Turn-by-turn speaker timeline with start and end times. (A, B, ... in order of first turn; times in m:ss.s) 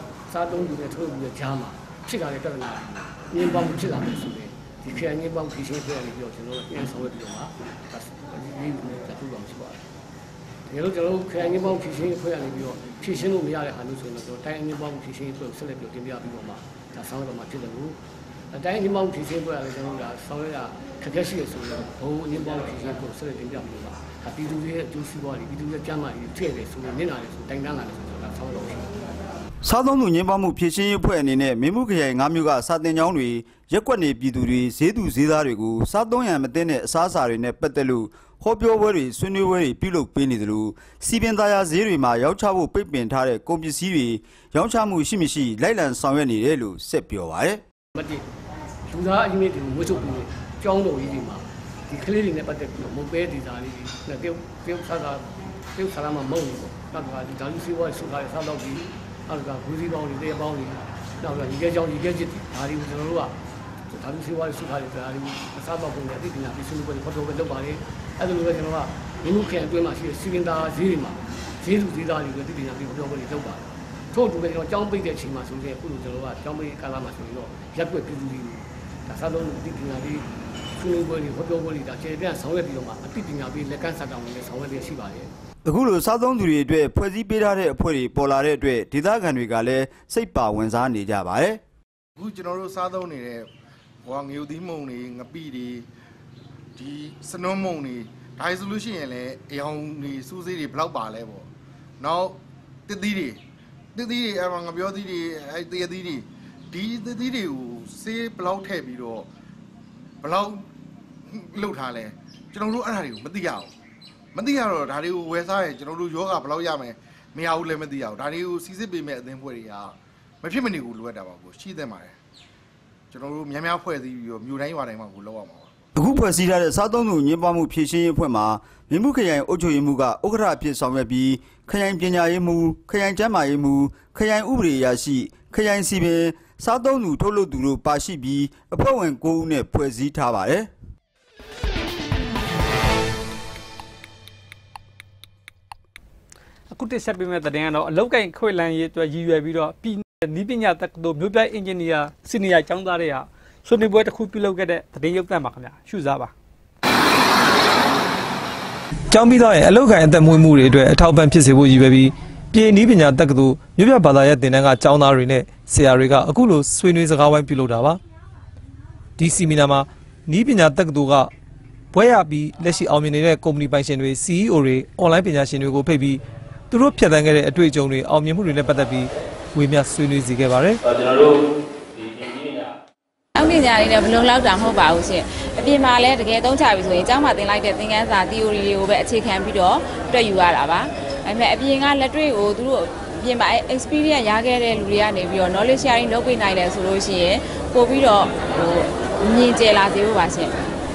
0:00.3-0:09.8 A
0:10.7-0:18.0 A
0:18.5-0:28.9 A
0:29.6-0:47.6 B
0:47.9-0:48.2 A
0:48.9-1:03.4 A
1:03.9-1:25.3 A
1:25.6-1:31.6 B
1:32.2-1:33.5 C
1:34.0-1:35.8 C
1:36.8-1:41.5 C
1:42.0-1:43.4 C
1:43.9-1:49.3 C
1:50.2-1:50.6 C
1:51.2-1:53.7 C
1:54.3-2:02.1 C
2:03.1-2:05.7 C
2:05.9-2:20.7 B
2:26.7-2:36.3 D
2:39.1-2:48.0 E
2:49.2-2:51.3 E
2:51.9-2:56.2 E
2:56.7-3:00.8 E
3:03.4-3:20.5 F